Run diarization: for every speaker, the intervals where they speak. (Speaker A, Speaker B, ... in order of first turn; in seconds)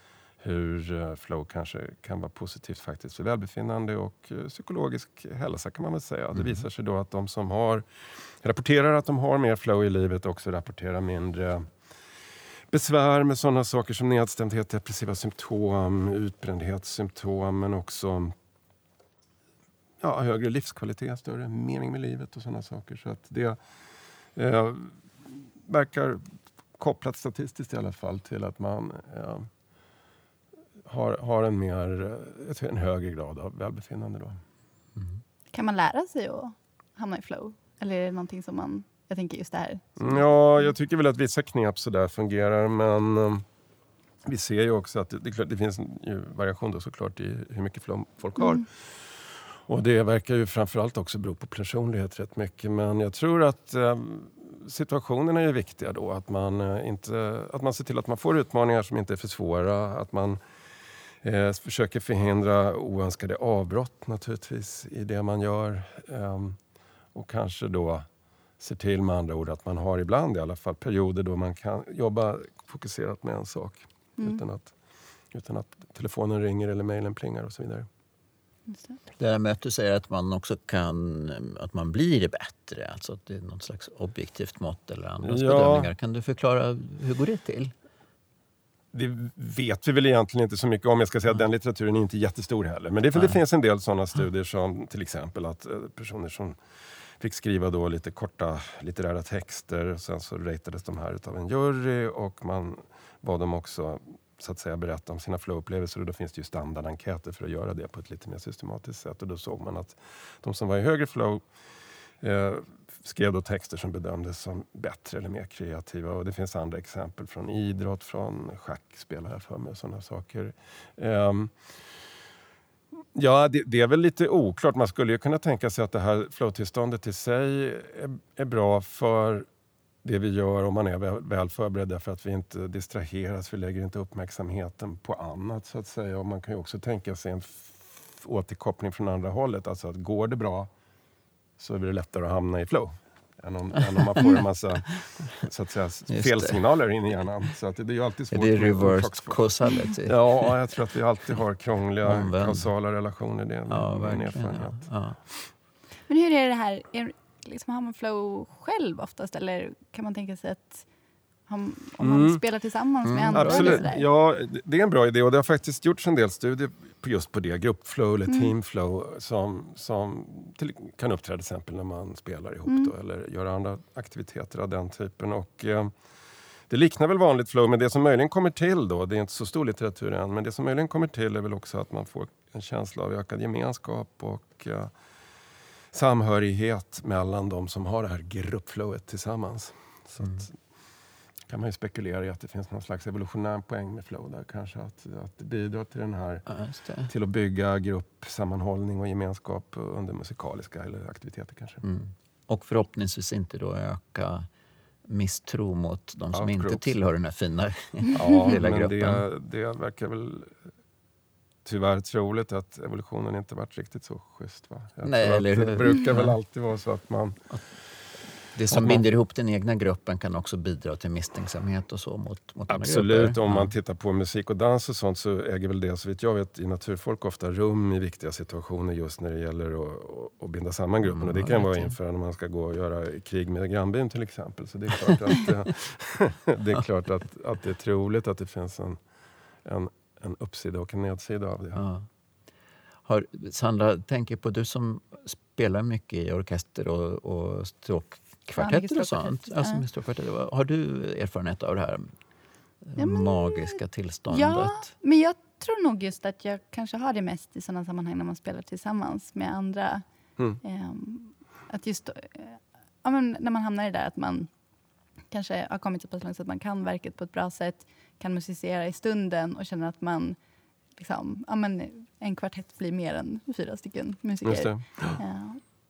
Speaker A: 0.4-11.7, 12.7-18.3, 20.0-23.6, 24.3-29.5, 30.8-34.4, 40.0-43.4, 44.2-60.4, 61.2-66.6, 67.1-68.1, 68.6-74.7, 75.3-77.9, 85.2-85.9, 88.9-96.6, 97.2-111.4, 112.2-121.5, 123.1-129.5, 130.0-140.7, 141.6-154.8, 162.0-162.4, 163.3-175.9, 176.7-184.9, 185.9-190.5, 191.5-196.4, 197.1-201.8, 206.3-206.9, 208.1-210.6, 211.6-217.4, 218.7-219.0, 222.7-239.0, 239.6-241.8, 274.4-275.2
Speaker B: 35.5-40.2, 74.2-74.4, 78.7-79.0, 156.1-160.8, 161.5-164.0, 168.3-168.5, 172.7-172.9, 248.6-249.8, 253.0-253.8, 254.3-260.0, 260.6-264.5, 265.3-270.4, 270.9-275.6
Speaker C: 79.2-87.7, 143.9-144.4, 146.1-146.6, 148.3-150.5, 152.0-152.7, 153.7-155.2, 163.0-163.8, 196.5-197.1, 201.8-204.5, 205.1-209.2, 215.0-216.3, 218.5-223.7, 231.1-231.9, 241.7-242.1, 243.1-252.1, 252.8-254.9